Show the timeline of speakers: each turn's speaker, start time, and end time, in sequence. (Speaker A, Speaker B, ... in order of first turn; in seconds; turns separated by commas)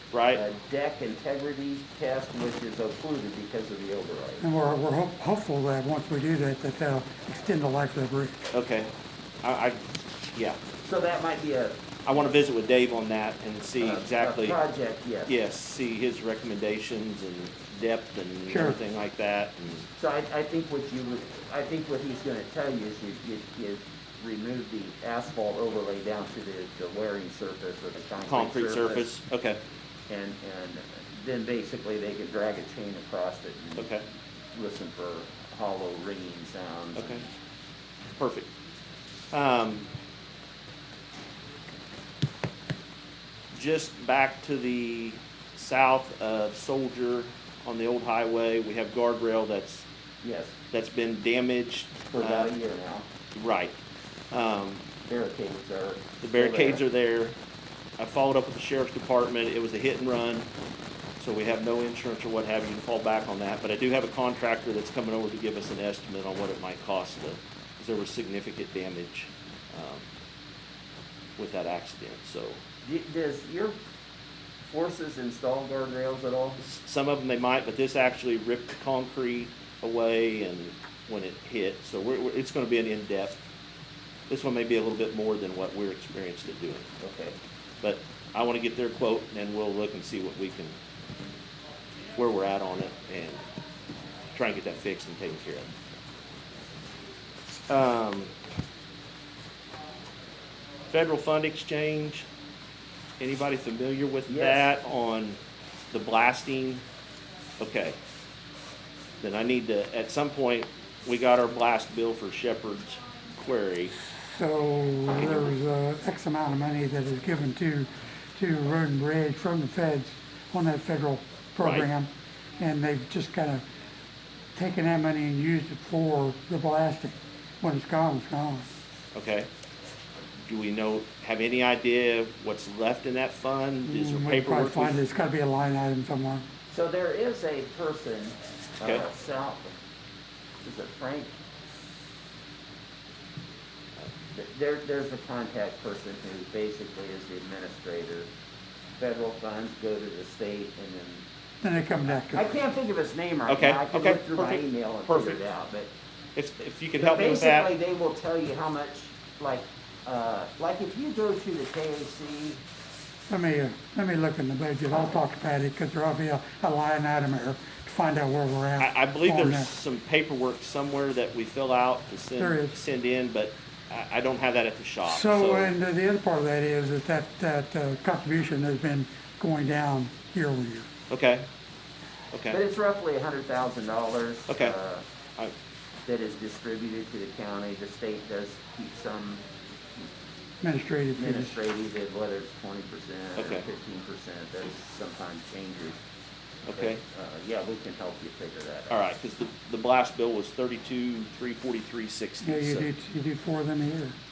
Speaker A: 0.1-0.4, Speaker B: 0.3-4.5, Speaker C: 4.4-8.4, Speaker A: 8.5-8.9, Speaker A: 9.4-9.8, Speaker A: 10.3-10.6, Speaker B: 10.8-11.8, Speaker A: 12.1-14.6, Speaker B: 13.8-15.3, Speaker A: 15.3-19.9, Speaker C: 18.5-18.8, Speaker B: 20.0-29.1, Speaker A: 28.3-29.6, Speaker B: 30.1-33.9, Speaker A: 33.8-34.0, Speaker B: 34.5-37.2, Speaker A: 37.0-37.2, Speaker A: 38.2-38.5, Speaker A: 39.3-39.9, Speaker A: 43.5-49.9, Speaker B: 50.2-50.6, Speaker A: 50.7-52.5, Speaker B: 52.1-53.1, Speaker A: 53.4-53.8, Speaker A: 54.3-54.8, Speaker B: 55.0-56.8, Speaker A: 56.2-57.4, Speaker A: 58.0-60.5, Speaker A: 61.2-70.1, Speaker A: 71.4-72.6, Speaker B: 72.8-73.8, Speaker B: 74.7-76.6, Speaker A: 76.6-83.4, Speaker A: 84.3-86.9, Speaker B: 87.0-87.4, Speaker A: 87.8-90.8, Speaker A: 92.2-93.4, Speaker A: 94.3-95.7, Speaker A: 97.7-98.3, Speaker A: 100.9-102.3, Speaker A: 103.2-105.4, Speaker B: 104.3-104.7, Speaker A: 105.9-106.8, Speaker A: 107.6-108.0, Speaker A: 109.2-114.0, Speaker C: 114.2-123.7, Speaker A: 115.2-115.5, Speaker A: 121.6-121.9, Speaker C: 124.5-128.7, Speaker A: 129.1-129.5, Speaker A: 130.5-135.0, Speaker C: 133.8-136.4, Speaker B: 136.7-139.7, Speaker B: 140.6-141.3, Speaker B: 144.3-148.3, Speaker B: 149.0-151.2, Speaker C: 151.6-152.5, Speaker B: 152.1-155.9, Speaker A: 153.5-155.4, Speaker A: 156.4-157.7, Speaker B: 157.0-162.6, Speaker C: 163.3-169.7, Speaker A: 168.8-175.8, Speaker C: 172.4-172.8, Speaker C: 175.1-180.9, Speaker A: 181.1-181.5, Speaker A: 182.3-182.6, Speaker B: 182.5-185.1, Speaker A: 184.5-184.7, Speaker B: 186.1-189.4, Speaker C: 190.6-191.6, Speaker B: 191.2-196.0, Speaker A: 193.4-193.7, Speaker A: 196.7-197.0, Speaker B: 196.7-199.0, Speaker A: 198.9-202.9, Speaker C: 202.4-204.2